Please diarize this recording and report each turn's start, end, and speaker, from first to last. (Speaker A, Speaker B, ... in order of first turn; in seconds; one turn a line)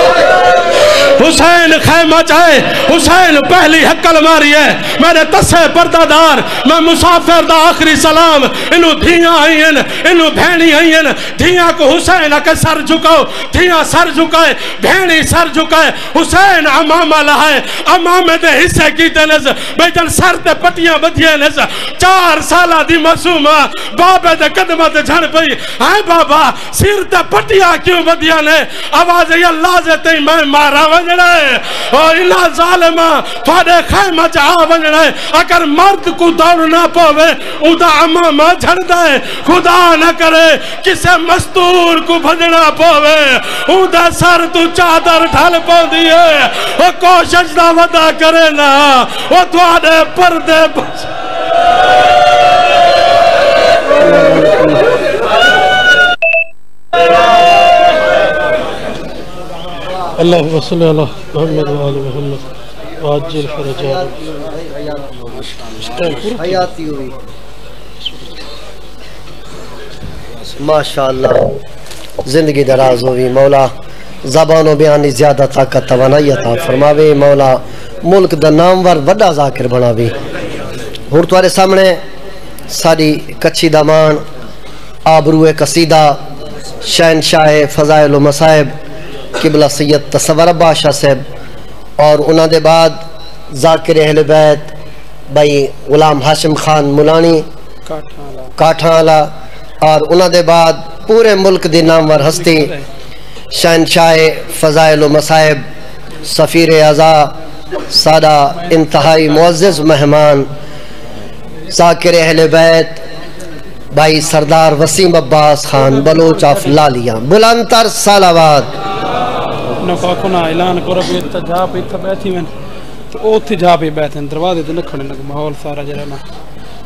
Speaker A: 0.9-51.1
Speaker A: 60.2-62.4
Speaker A: 63.0-64.1
Speaker B: 63.8-65.5
Speaker A: 65.8-66.6
Speaker B: 66.1-67.2
Speaker B: 70.6-71.6
Speaker B: 72.2-73.7
Speaker B: 74.2-80.1
Speaker B: 81.1-82.0
Speaker B: 82.7-84.2
Speaker B: 85.1-86.2
Speaker B: 86.8-88.7
Speaker B: 89.4-91.2
Speaker B: 92.0-93.0
Speaker B: 93.5-94.7
Speaker B: 95.3-97.4
Speaker C: 97.8-98.5
Speaker B: 98.6-99.3
Speaker B: 99.8-102.7
Speaker C: 102.2-102.8
Speaker B: 103.5-105.6
Speaker B: 106.2-107.3
Speaker B: 107.9-110.5
Speaker B: 111.7-113.0
Speaker B: 113.9-118.7
Speaker C: 115.8-116.8
Speaker C: 119.8-122.5
Speaker C: 123.1-126.2